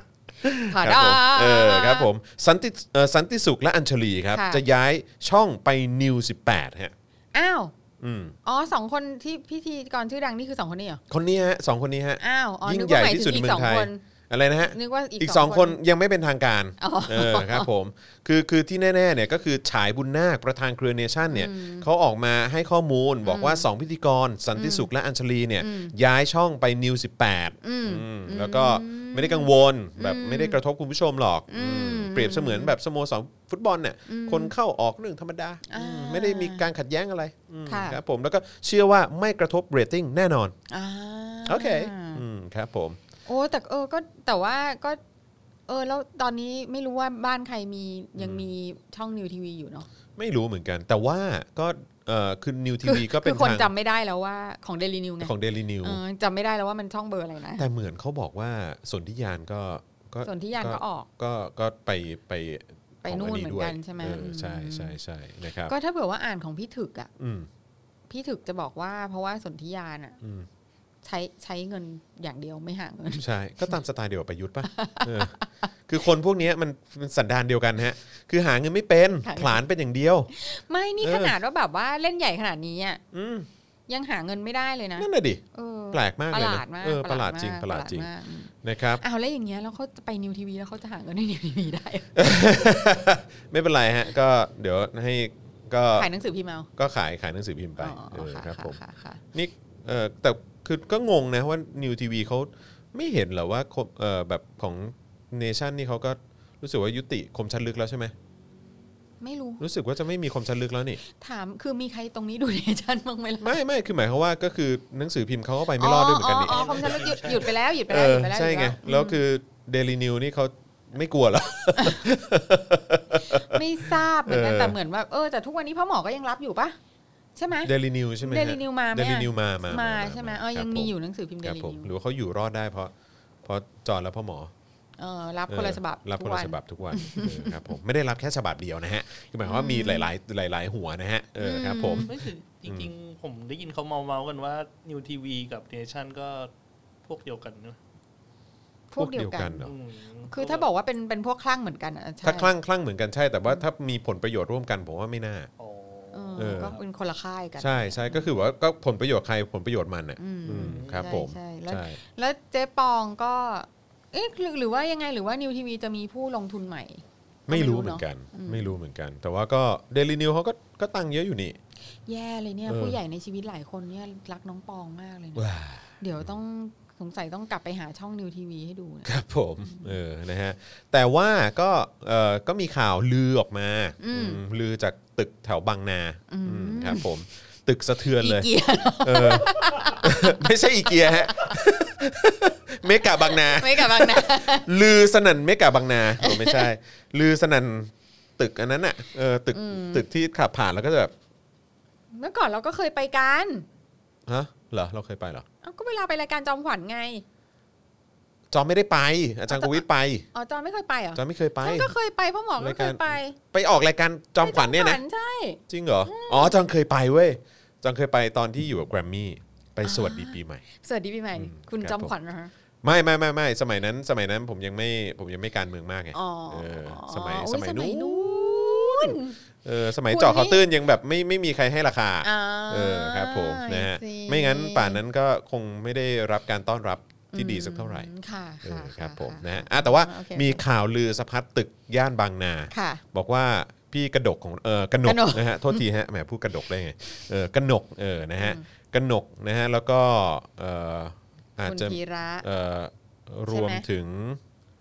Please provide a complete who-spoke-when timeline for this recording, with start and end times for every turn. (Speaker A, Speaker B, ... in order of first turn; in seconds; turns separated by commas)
Speaker A: 0.4-6.9, Speaker B: 0.7-2.1, Speaker B: 4.3-4.6, Speaker B: 7.3-7.7, Speaker A: 8.0-8.4, Speaker B: 8.4-11.0, Speaker A: 11.1-40.5, Speaker B: 12.2-14.0, Speaker B: 14.7-15.8, Speaker B: 16.8-17.7, Speaker B: 21.3-21.9, Speaker B: 23.2-23.7, Speaker B: 24.6-24.9, Speaker B: 25.6-25.9, Speaker B: 27.6-30.6, Speaker B: 31.5-32.8, Speaker B: 34.1-34.5, Speaker B: 35.7-36.7, Speaker B: 37.7-38.0, Speaker B: 40.7-42.2, Speaker A: 41.5-43.0, Speaker B: 43.3-45.0, Speaker B: 45.7-49.9, Speaker A: 48.2-48.5, Speaker A: 50.2-53.7, Speaker B: 52.8-57.6, Speaker A: 55.2-56.0, Speaker A: 57.6-65.7, Speaker B: 60.2-61.1, Speaker B: 63.0-65.0, Speaker B: 65.7-67.1, Speaker A: 67.2-67.5, Speaker B: 68.1-70.2, Speaker A: 70.2-70.5, Speaker B: 71.0-73.8, Speaker A: 73.2-75.3, Speaker B: 74.6-75.5, Speaker A: 75.9-80.3, Speaker B: 79.2-79.6, Speaker B: 80.3-83.0, Speaker A: 81.0-81.4, Speaker A: 83.1-83.5, Speaker B: 83.9-92.2, Speaker A: 85.0-88.1, Speaker A: 88.6-89.0, Speaker A: 92.2-96.1, Speaker B: 96.0-96.7, Speaker A: 96.8-98.8, Speaker B: 97.8-99.2, Speaker A: 99.3-108.1, Speaker B: 109.2-109.6, Speaker A: 109.6-111.0, Speaker B: 111.0-113.6, Speaker A: 113.4-117.0, Speaker B: 115.8-119.2, Speaker C: 116.5-117.5, Speaker A: 117.9-124.8, Speaker B: 121.8-122.0, Speaker B: 123.3-126.8, Speaker B: 127.4-127.7, Speaker A: 127.6-132.9, Speaker B: 128.2-131.9, Speaker A: 133.4-134.5, Speaker B: 135.0-137.7, Speaker A: 135.5-142.1, Speaker B: 139.4-140.1, Speaker B: 141.4-142.1, Speaker C: 141.9-146.5, Speaker A: 142.7-142.9, Speaker C: 147.0-147.8, Speaker B: 148.9-149.7, Speaker A: 149.0-149.7, Speaker C: 149.6-150.7, Speaker B: 150.3-152.5, Speaker A: 152.2-155.5, Speaker C: 155.6-156.8, Speaker B: 156.1-158.3, Speaker A: 156.4-156.8, Speaker A: 157.6-162.0, Speaker B: 160.2-168.8, Speaker C: 160.6-161.1, Speaker A: 167.5-171.6, Speaker B: 172.1-175.5, Speaker A: 172.7-173.0, Speaker A: 175.4-176.3, Speaker B: 176.0-179.1, Speaker A: 179.1-188.5, Speaker B: 179.6-179.9, Speaker B: 184.0-184.4, Speaker B: 186.3-187.1, Speaker B: 188.2-190.4, Speaker A: 189.0-201.1, Speaker B: 193.2-194.7, Speaker B: 196.2-196.7, Speaker B: 199.5-200.0, Speaker B: 202.1-203.7, Speaker A: 204.3-205.4, Speaker B: 205.6-207.2, Speaker A: 208.5-210.2, Speaker B: 209.5-209.8, Speaker B: 210.3-213.4, Speaker A: 211.2-211.9, Speaker A: 212.6-215.0, Speaker B: 214.4-216.6, Speaker A: 215.7-220.6, Speaker B: 219.8-222.5, Speaker A: 221.4-222.1, Speaker A: 222.8-238.1, Speaker B: 226.1-229.4, Speaker B: 230.0-230.6, Speaker B: 232.2-235.0, Speaker B: 237.3-240.6, Speaker A: 238.6-254.4, Speaker B: 242.7-243.0, Speaker B: 245.0-245.8, Speaker B: 248.4-248.6, Speaker B: 251.6-252.4, Speaker B: 253.5-253.8